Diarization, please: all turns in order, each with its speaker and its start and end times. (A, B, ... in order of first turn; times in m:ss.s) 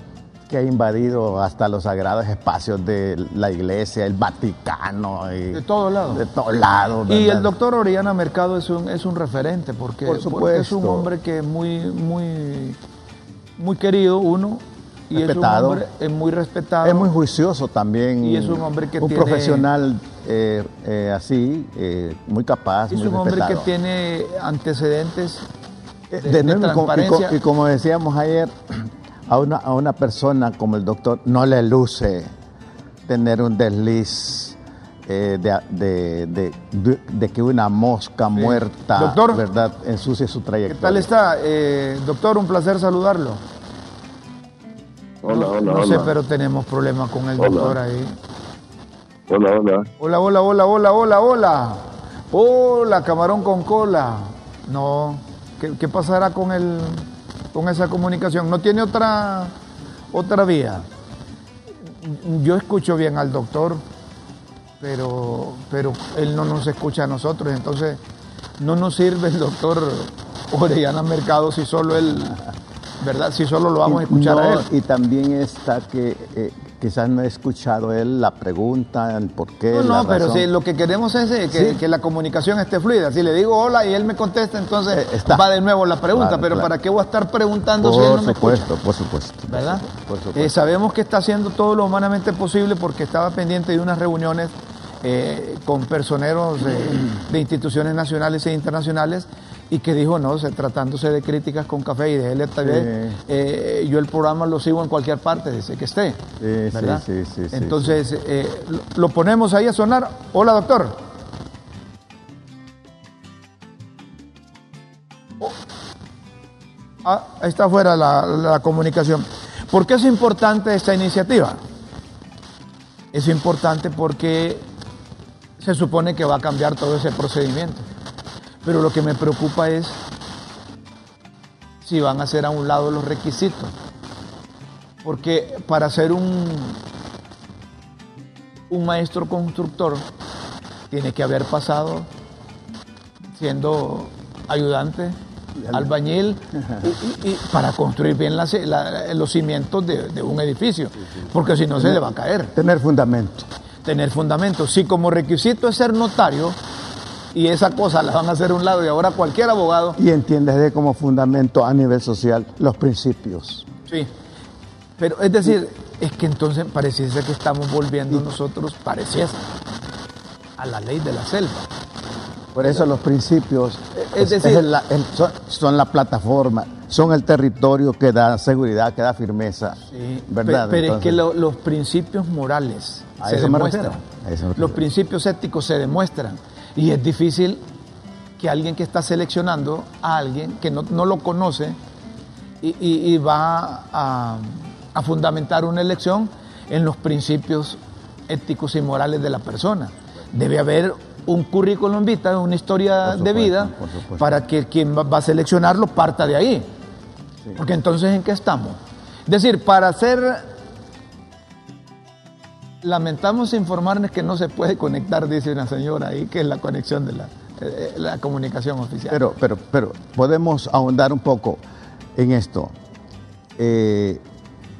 0:00.5-0:07.5 A
0:05.5-0:06.2 B
0:07.1-0:12.8 B
0:10.0-0:11.1 A
0:13.6-0:17.1 B
0:15.1-0:15.8 A
0:16.8-0:23.7 A
0:18.2-0:19.7 B
0:22.9-0:25.4 B
0:26.1-0:32.3 A
0:26.2-0:27.4 B
0:33.0-0:41.1 A
0:38.3-0:39.4 B
0:40.7-0:43.4 B
0:45.2-0:46.1 C
0:45.3-0:48.1 B
0:47.4-0:47.8 C
0:49.3-0:49.9 C
0:50.0-0:59.5 B
1:00.1-1:00.8 B
1:02.0-1:03.8 B
1:04.8-1:08.0 B
1:08.6-1:12.4 B
1:13.0-1:14.7 B
1:13.8-1:20.5 A
1:19.7-1:28.7 B
1:21.5-1:21.8 A
1:24.9-1:25.4 A
1:26.1-1:26.7 A
1:27.8-1:30.6 A
1:29.5-1:51.0 B
1:42.6-1:43.2 A
1:46.4-1:48.0 A
1:57.0-2:01.6 B
2:03.1-2:04.6 B
2:05.6-2:07.9 B
2:08.6-2:10.0 B
2:11.8-2:13.7 B
2:15.0-2:16.8 B
2:18.7-2:20.0 B
2:20.9-2:22.1 B
2:23.4-2:25.2 B
2:25.6-2:25.9 A
2:25.7-2:32.5 B
2:32.5-2:33.5 A
2:33.8-2:36.6 B
2:37.3-2:40.0 B
2:40.0-2:43.7 A
2:45.0-2:49.5 B
2:50.6-2:51.7 B
2:52.5-3:01.2 A
2:54.0-2:54.7 B
2:59.8-3:04.0 B
3:03.2-3:04.8 A
3:04.6-3:07.6 B
3:08.4-3:11.8 B
3:12.6-3:26.6 B
3:23.0-3:24.4 A
3:27.6-3:30.5 B
3:32.8-3:39.2 B
3:39.1-3:41.6 A
3:42.2-3:42.7 A
3:43.6-3:44.2 A